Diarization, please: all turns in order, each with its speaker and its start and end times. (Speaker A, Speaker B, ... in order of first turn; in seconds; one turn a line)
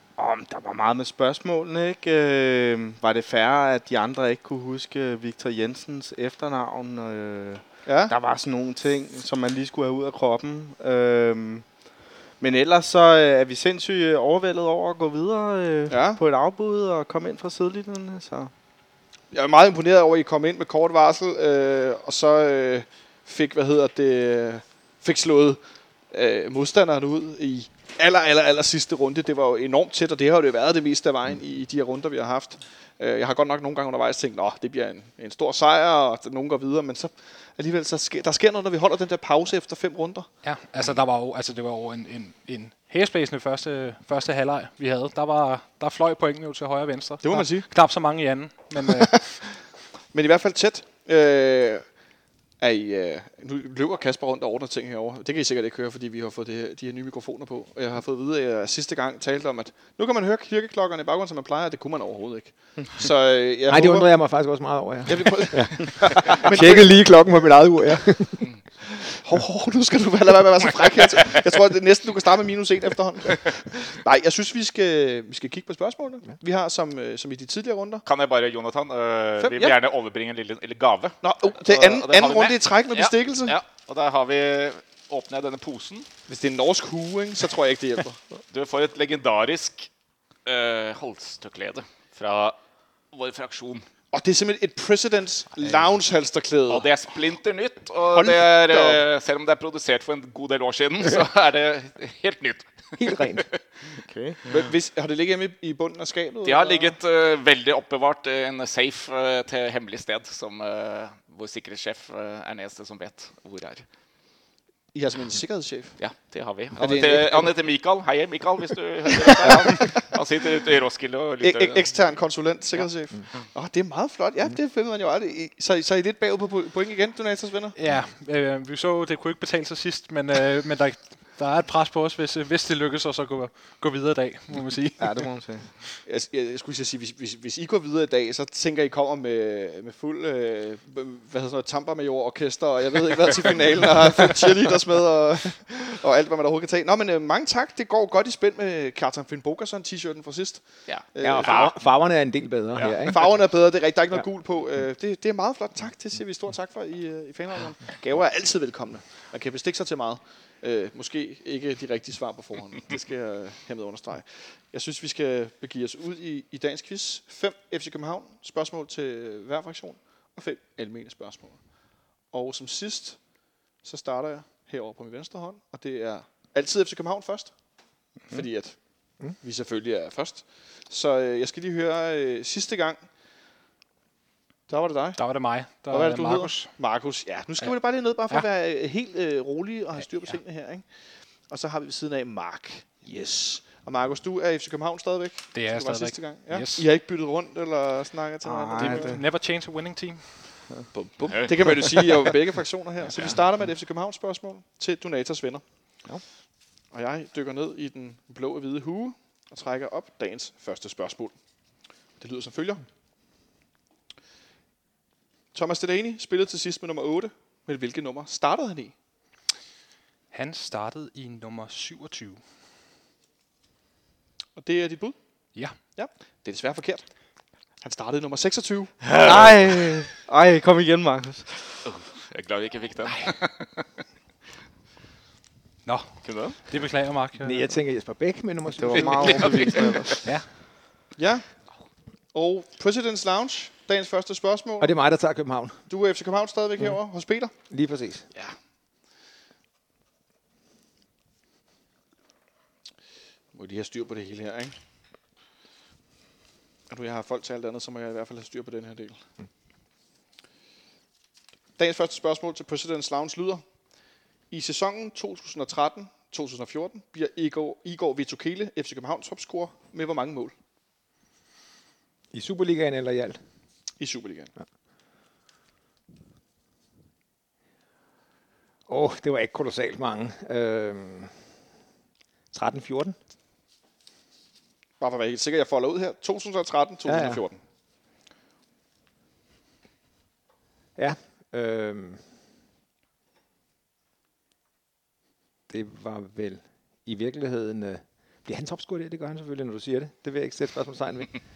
Speaker A: 0.2-18.5
Speaker B: 7.9-8.1
Speaker B: 15.9-16.2
Speaker B: 19.3-25.6
Speaker B: 26.1-40.3
Speaker C: 40.4-49.5
Speaker B: 47.2-47.7
Speaker B: 48.9-49.6
Speaker B: 50.1-51.9
Speaker B: 52.6-64.1
Speaker D: 63.7-68.5
Speaker B: 65.1-67.0
Speaker B: 69.0-78.0
Speaker E: 78.1-86.1
Speaker B: 79.4-79.8
Speaker B: 81.2-83.6
Speaker B: 86.3-88.2
Speaker E: 88.5-89.9
Speaker E: 90.5-92.6
Speaker E: 93.1-93.9
Speaker B: 94.1-96.9
Speaker E: 96.7-103.6
Speaker B: 98.1-99.0
Speaker D: 103.0-103.5
Speaker A: 104.0-104.4
Speaker B: 104.5-107.0
Speaker E: 106.5-113.8
Speaker B: 114.9-116.0
Speaker E: 116.0-122.1
Speaker B: 116.8-117.5
Speaker B: 119.3-119.9
Speaker B: 121.4-127.8
Speaker C: 127.8-135.4
Speaker A: 135.0-135.7
Speaker B: 136.1-151.7
Speaker E: 150.9-151.8
Speaker D: 151.2-153.2
Speaker B: 153.0-171.7
Speaker B: 172.3-173.2
Speaker B: 173.8-177.5
Speaker B: 178.3-183.0
Speaker B: 184.7-190.9
Speaker C: 185.2-186.7
Speaker B: 191.5-199.2
Speaker C: 195.5-196.9
Speaker A: 198.4-199.2
Speaker C: 198.8-200.6
Speaker B: 200.9-205.6
Speaker E: 201.3-201.8
Speaker B: 206.9-211.3
Speaker B: 212.2-212.8
Speaker B: 215.5-218.9
Speaker C: 220.3-222.4
Speaker B: 224.6-225.2
Speaker B: 225.9-227.1
Speaker B: 227.8-229.0
Speaker E: 229.0-230.0
Speaker A: 229.2-231.8
Speaker E: 231.8-233.8
Speaker C: 235.8-237.7
Speaker E: 236.2-236.6
Speaker D: 237.4-239.5
Speaker A: 238.8-240.3
Speaker E: 239.2-240.1
Speaker B: 241.2-241.5
Speaker B: 242.3-244.9
Speaker D: 244.8-245.8
Speaker B: 245.9-247.5
Speaker D: 247.7-248.3
Speaker B: 253.5-254.8
Speaker B: 256.9-259.2
Speaker B: 261.8-263.6
Speaker B: 264.5-270.5
Speaker D: 272.3-273.4
Speaker B: 274.0-274.5
Speaker D: 278.9-281.3
Speaker D: 282.5-283.2
Speaker B: 285.0-287.6
Speaker D: 287.1-287.4
Speaker D: 291.0-292.2
Speaker D: 295.7-301.3